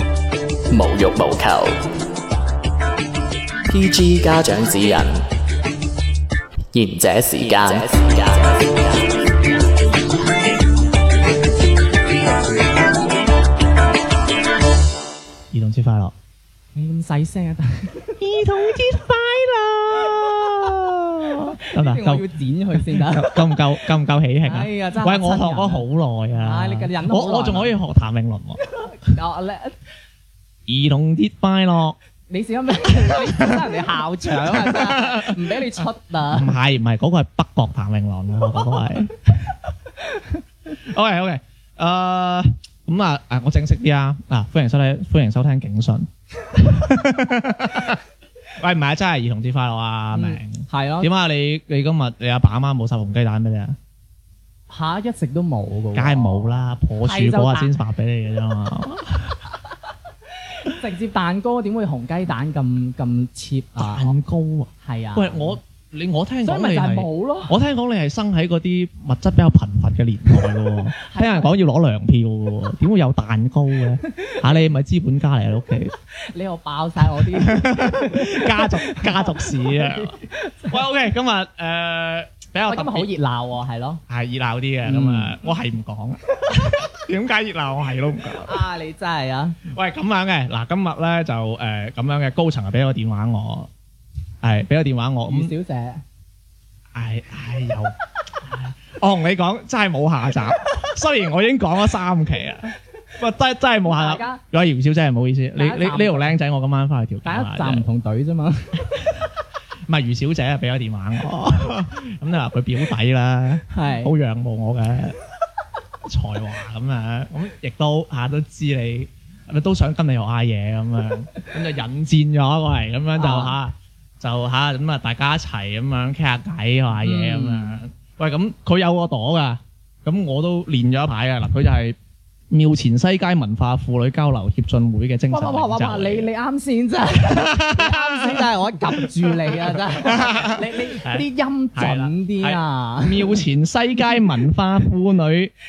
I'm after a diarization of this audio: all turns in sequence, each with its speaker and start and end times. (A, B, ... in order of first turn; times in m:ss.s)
0:00.7-0:01.8 A
0:03.7-0:05.2 A
0:06.7-0:09.2 A
0:15.5-0:16.1 B
0:16.7-0:18.2 C
0:18.2-0:28.6 B
0:20.0-0:20.6 C
0:21.6-0:23.7 C
0:24.4-0:27.7 C
0:28.7-0:29.8 C
0:30.7-0:32.0 B
0:32.3-0:36.6 C
0:34.4-0:35.6 B
0:36.3-0:39.6 B
0:40.2-0:48.0 B
0:48.6-0:53.8 B
0:50.1-0:51.1 C
0:54.7-0:57.7 C
0:55.9-0:59.4 B
1:00.5-1:04.1 C
1:03.8-1:15.9 B
1:04.8-1:05.6 C
1:06.4-1:07.5 C
1:11.0-1:11.6 C
1:16.3-1:20.8 C
1:17.4-1:20.2 B
1:20.7-1:23.1 B
1:22.7-1:24.0 C
1:24.1-1:28.6 B
1:24.8-1:25.4 C
1:28.5-1:29.6 C
1:29.7-1:33.7 B
1:34.4-1:35.5 B
1:35.3-1:36.0 C
1:36.9-1:47.8 B
1:43.8-1:44.4 C
1:45.6-1:46.3 C
1:47.2-1:48.9 C
1:49.9-1:55.2 B
1:53.7-1:54.1 C
1:56.0-2:12.0 B
2:03.2-2:03.5 C
2:07.0-2:07.8 C
2:12.5-2:16.3 B
2:15.3-2:23.4 C
2:17.2-2:18.4 B
2:19.0-2:25.5 B